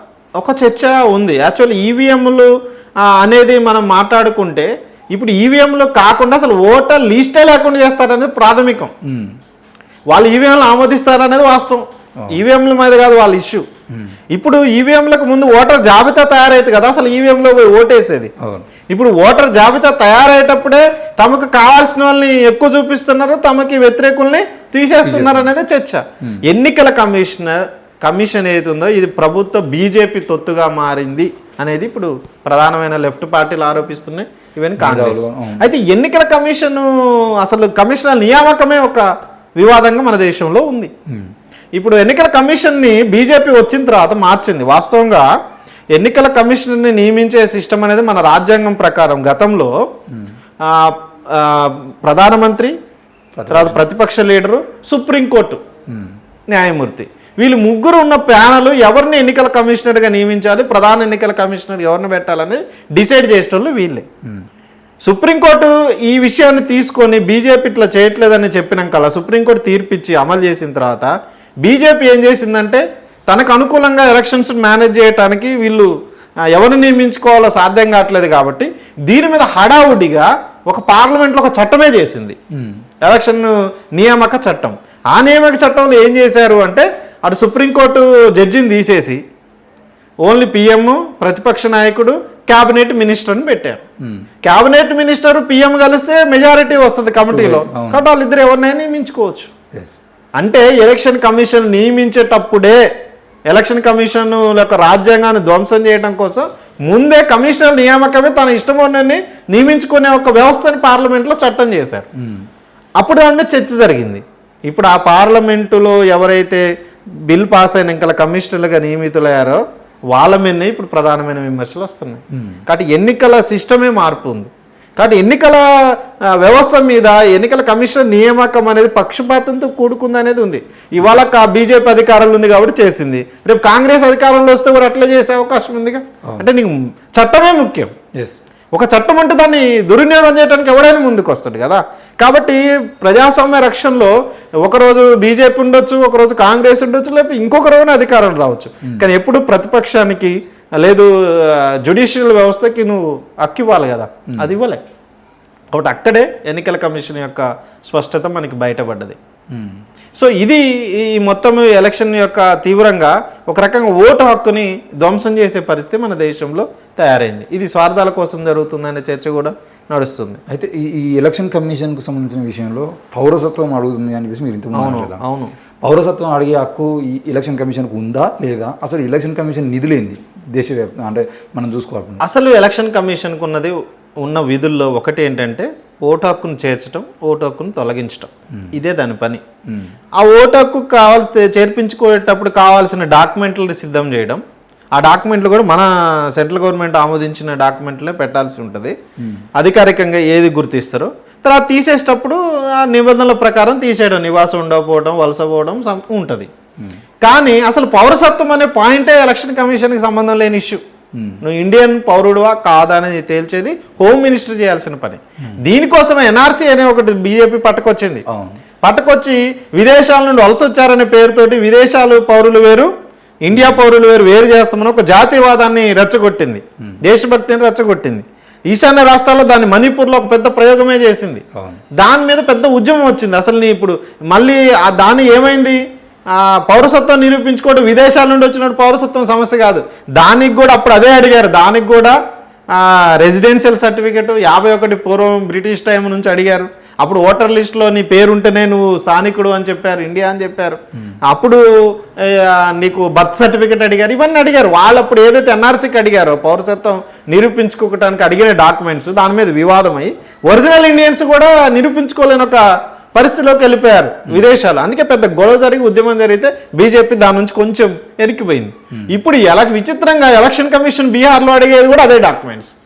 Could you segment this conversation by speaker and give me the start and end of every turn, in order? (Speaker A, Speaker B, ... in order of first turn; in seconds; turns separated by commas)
Speaker A: 0.4-2.5, Speaker A: 3.0-8.9, Speaker B: 9.0-9.3, Speaker A: 10.1-13.7, Speaker A: 14.3-18.3, Speaker B: 18.4-18.7, Speaker A: 18.9-36.9, Speaker B: 25.0-25.5, Speaker B: 34.8-35.7, Speaker A: 37.4-39.0, Speaker A: 39.6-40.9, Speaker A: 41.8-45.3, Speaker A: 45.9-49.7, Speaker A: 50.6-52.7, Speaker B: 53.4-53.8, Speaker A: 53.5-55.6, Speaker A: 56.5-64.0, Speaker A: 65.0-71.1, Speaker A: 71.6-75.9, Speaker A: 76.5-82.4, Speaker A: 83.0-89.2, Speaker A: 90.2-93.8, Speaker B: 94.0-94.2, Speaker A: 94.4-99.5, Speaker B: 97.3-98.0, Speaker B: 99.7-100.0, Speaker A: 100.4-102.8, Speaker A: 103.5-112.0, Speaker B: 112.2-112.4, Speaker A: 113.0-116.6, Speaker A: 117.3-119.6, Speaker A: 120.1-137.9, Speaker B: 122.3-122.6, Speaker A: 138.7-154.8, Speaker A: 155.7-159.2, Speaker B: 159.5-159.8, Speaker A: 160.2-170.4, Speaker B: 170.5-175.2, Speaker A: 174.7-175.5, Speaker B: 175.8-182.2, Speaker A: 182.2-189.4, Speaker B: 189.7-189.9, Speaker A: 190.2-194.4, Speaker A: 194.9-198.9, Speaker B: 199.2-199.4, Speaker A: 199.6-206.5, Speaker A: 207.2-210.8, Speaker B: 211.1-211.4, Speaker A: 211.4-218.2, Speaker B: 218.3-218.6, Speaker A: 218.8-222.9, Speaker A: 223.4-231.4, Speaker B: 223.5-223.8, Speaker B: 231.6-231.8, Speaker A: 232.0-242.2, Speaker A: 242.7-262.6, Speaker A: 263.1-272.7